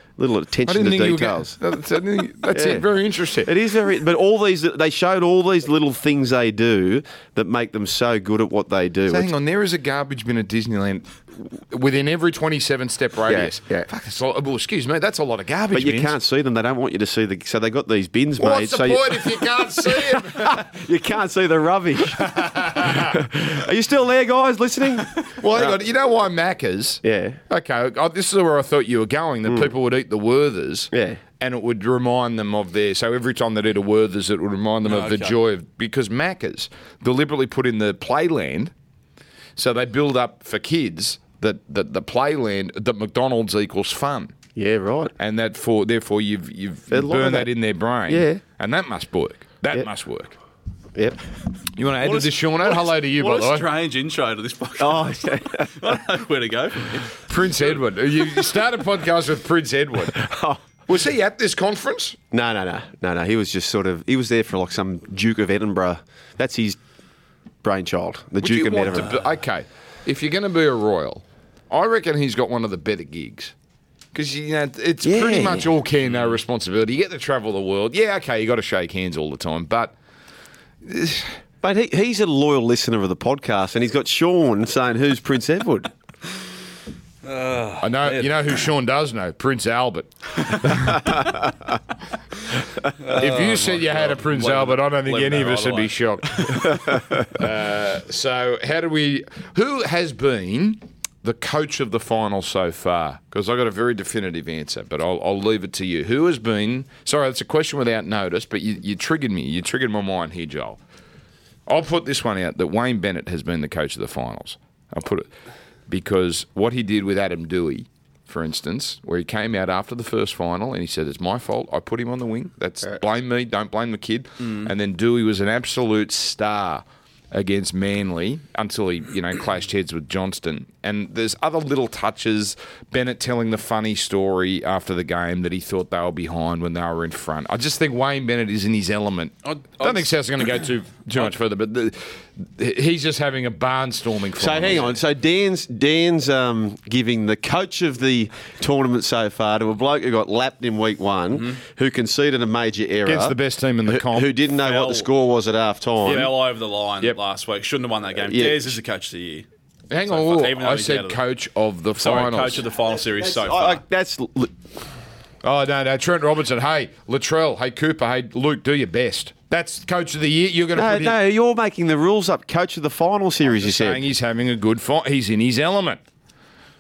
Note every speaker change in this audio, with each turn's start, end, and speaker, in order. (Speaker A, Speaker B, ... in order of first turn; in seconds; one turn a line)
Speaker A: 0.2-1.6
Speaker B: 0.7-3.5
Speaker A: 2.5-2.9
Speaker A: 3.4-9.3
Speaker B: 9.1-16.1
Speaker A: 13.3-13.9
Speaker A: 15.7-25.8
Speaker B: 18.4-20.7
Speaker B: 22.1-23.2
Speaker B: 25.2-38.7
Speaker A: 27.0-27.4
Speaker A: 29.5-29.7
Speaker A: 30.9-31.2
Speaker C: 34.9-35.4
Speaker B: 39.6-44.4
Speaker A: 44.6-45.1
Speaker B: 45.2-50.4
Speaker A: 46.9-47.5
Speaker A: 48.1-48.4
Speaker A: 51.0-51.2
Speaker B: 51.8-53.6
Speaker C: 52.0-57.8
Speaker A: 54.8-55.7
Speaker B: 57.3-60.2
Speaker A: 60.1-60.6
Speaker B: 60.9-62.2
Speaker A: 62.3-66.8
Speaker A: 67.6-69.2
Speaker B: 68.4-73.5
Speaker C: 68.9-69.3
Speaker B: 74.1-79.9
Speaker A: 75.0-75.7
Speaker C: 76.1-76.4
Speaker B: 80.8-81.4
Speaker A: 81.6-85.9
Speaker C: 87.2-88.6
Speaker B: 87.8-91.2
Speaker A: 91.0-91.4
Speaker C: 93.0-96.5
Speaker B: 93.2-110.8
Speaker B: 111.7-115.3
Speaker B: 115.9-144.9
Speaker C: 124.4-124.7
Speaker C: 139.4-140.1
Speaker A: 144.4-156.3
Speaker C: 151.3-151.6
Speaker B: 153.1-154.3
Speaker C: 154.6-155.1
Speaker C: 156.0-159.5
Speaker A: 158.2-158.7
Speaker B: 159.9-162.6
Speaker C: 160.1-161.2
Speaker C: 162.0-163.8
Speaker A: 163.0-164.6
Speaker B: 165.4-171.2
Speaker A: 170.8-174.0
Speaker B: 173.5-176.0